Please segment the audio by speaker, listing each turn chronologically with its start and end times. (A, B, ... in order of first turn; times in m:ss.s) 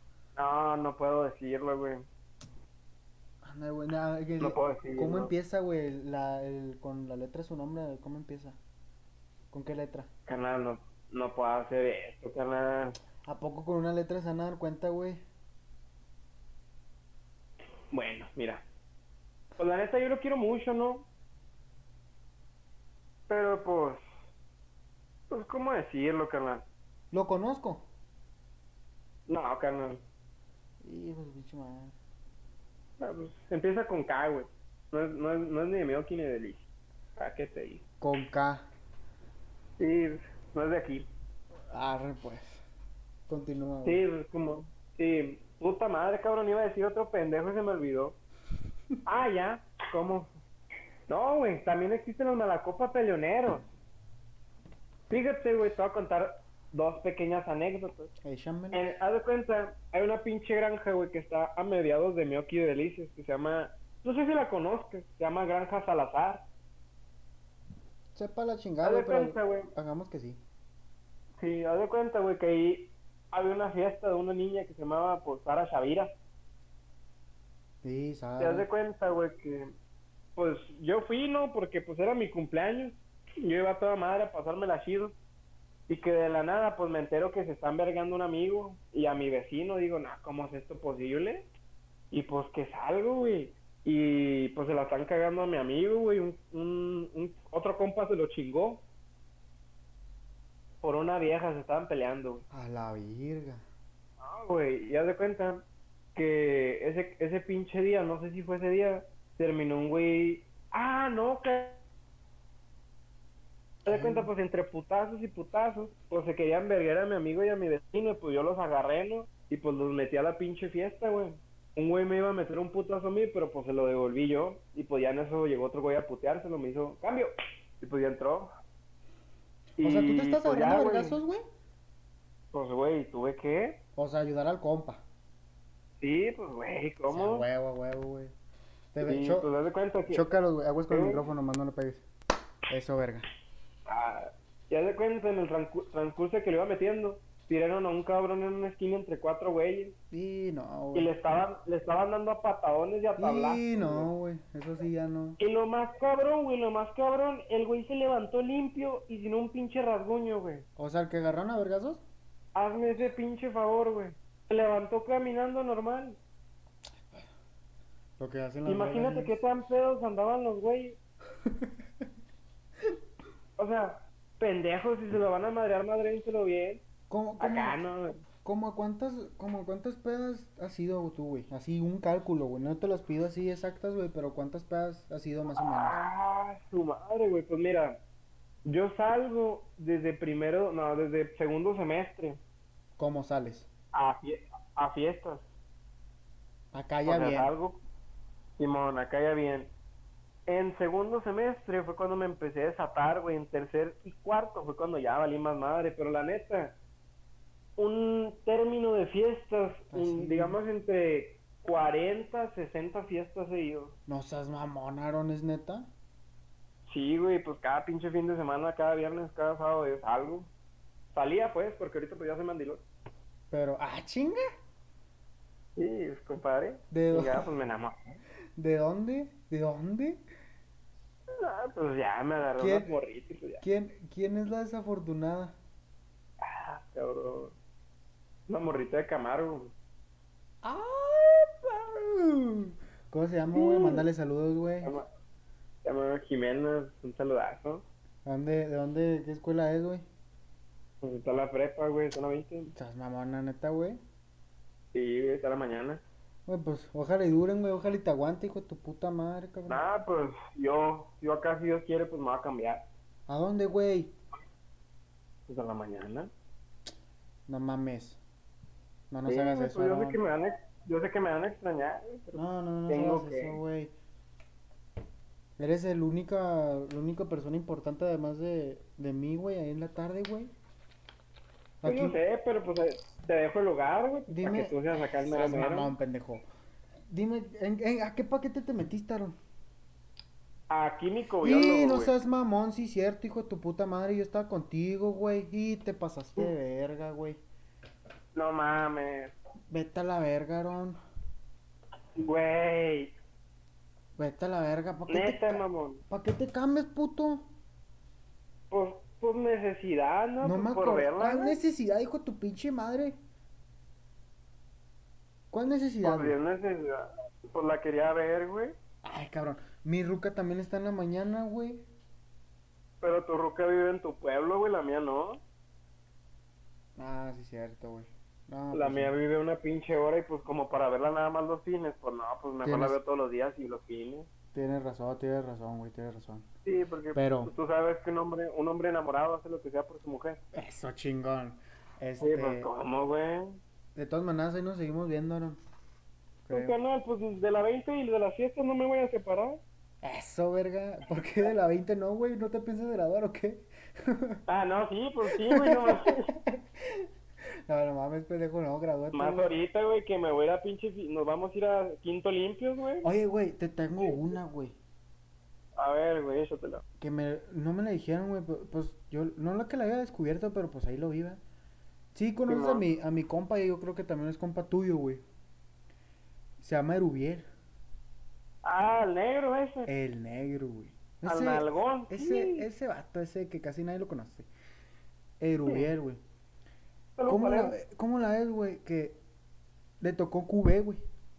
0:00.4-0:02.1 A
0:03.4-0:08.6 B
0:04.4-0:05.3 A
0:09.5-0:10.1 B
0:10.3-0:13.0 A
0:13.2-0:15.2 B
0:17.9-0:18.6 A
0:19.6-0:21.1 A
0:23.3-0:24.0 A
0:25.3-0:26.6 A
0:27.1-0:27.8 B
0:29.3-0:30.0 A
0:30.8-0:31.9 B
0:33.0-0:36.6 A
0:37.2-0:37.8 A
0:38.0-0:38.7 B
0:39.8-0:41.1 A
0:41.7-0:42.6 B
0:43.3-0:44.0 B
0:43.8-0:48.2 A
0:49.0-0:50.3 A
0:51.1-0:53.7 A
0:55.1-0:58.1 A
0:58.2-0:58.9 B
0:58.7-1:06.4 A
1:08.1-1:10.4 B
1:08.8-1:09.7 A
1:11.4-1:16.2 A
1:17.8-1:18.6 B
1:18.4-1:19.7 A
1:20.4-1:25.1 A
1:25.9-1:31.5 A
1:32.1-1:38.8 A
1:40.8-1:42.4 A
1:42.5-1:43.6 B
1:44.2-1:51.8 A
1:53.8-1:54.3 B
1:53.8-2:08.5 A
2:09.8-2:11.2 A
2:09.8-2:11.4 B
2:12.5-2:13.8 A
2:14.0-2:15.0 B
2:16.0-2:17.4 A
2:17.1-2:18.3 B
2:18.9-2:19.5 B
2:19.0-2:20.2 A
2:20.1-2:22.0 B
2:20.9-2:21.2 A
2:22.7-2:23.2 B
2:23.9-2:29.9 A
2:30.1-2:31.1 B
2:30.9-2:34.1 A
2:33.2-2:35.4 B
2:35.4-2:40.6 A
2:40.8-2:42.0 B
2:42.5-2:46.2 A
2:48.2-2:49.4 B
2:48.6-2:51.0 A
2:51.4-2:51.7 B
2:53.6-2:56.8 A
2:57.1-2:57.8 B
2:57.4-2:58.2 A
2:58.4-3:06.0 B
3:05.6-3:08.0 A
3:08.6-3:12.4 A
3:13.0-3:13.7 B
3:13.9-3:15.5 A
3:16.7-3:17.5 B
3:17.0-3:17.8 A
3:18.6-3:19.7 A
3:20.5-3:26.8 A
3:27.8-3:34.0 A
3:29.9-3:30.6 B
3:34.1-3:35.9 B
3:36.9-3:40.5 A
3:41.1-3:42.8 A
3:43.5-3:44.4 B
3:45.8-3:48.2 A
3:46.9-3:47.5 B
3:48.6-3:50.2 B
3:51.4-3:53.6 A
3:52.6-3:52.9 B
3:53.6-3:55.6 B
3:56.4-3:57.5 A
3:58.5-3:59.7 A
4:00.6-4:04.9 B
4:03.5-4:04.0 A
4:05.8-4:07.8 A
4:08.2-4:10.0 B
4:11.0-4:12.7 A
4:12.8-4:14.0 B
4:14.9-4:16.0 A
4:16.5-4:19.8 B
4:19.7-4:22.8 A
4:23.3-4:24.1 B
4:25.5-4:26.3 A
4:27.5-4:28.2 B
4:29.1-4:30.2 B
4:29.3-4:33.6 A
4:32.3-4:33.9 B
4:35.6-4:40.5 B
4:41.8-4:42.2 B
4:41.8-4:45.9 A
4:44.3-4:46.5 B
4:47.1-4:49.4 B
4:50.7-4:52.1 A
4:51.4-4:57.4 B
4:58.3-4:59.3 A
4:59.7-5:01.0 B
5:02.2-5:03.1 A
5:04.2-5:07.5 B
5:05.1-5:06.0 A
5:08.7-5:11.6 A
5:10.4-5:13.2 B
5:15.5-5:16.4 B
5:16.0-5:18.8 A
5:19.0-5:21.8 B
5:23.0-5:25.4 A
5:27.0-5:29.1 B
5:28.7-5:34.3 A
5:32.6-5:33.0 B
5:34.5-5:36.5 B
5:36.6-5:40.4 A
5:37.1-5:37.5 B
5:40.5-5:42.7 B
5:42.2-5:43.6 A
5:43.9-5:45.6 B
5:46.4-5:46.8 B
5:46.5-5:49.6 A
5:50.0-5:54.4 B
5:54.5-5:56.3 A
5:55.3-5:57.1 B
5:57.7-5:59.5 B
5:59.1-6:03.1 A
6:03.0-6:04.8 B
6:05.8-6:06.8 A
6:07.0-6:11.4 B
6:12.1-6:15.2 B
6:12.5-6:12.8 A
6:16.6-6:17.5 B
6:18.6-6:19.9 A
6:19.9-6:24.5 B
6:21.2-6:22.7 A
6:25.4-6:26.2 B
6:25.6-6:25.9 A
6:27.2-6:27.8 A
6:27.3-6:29.2 B
6:30.0-6:31.0 B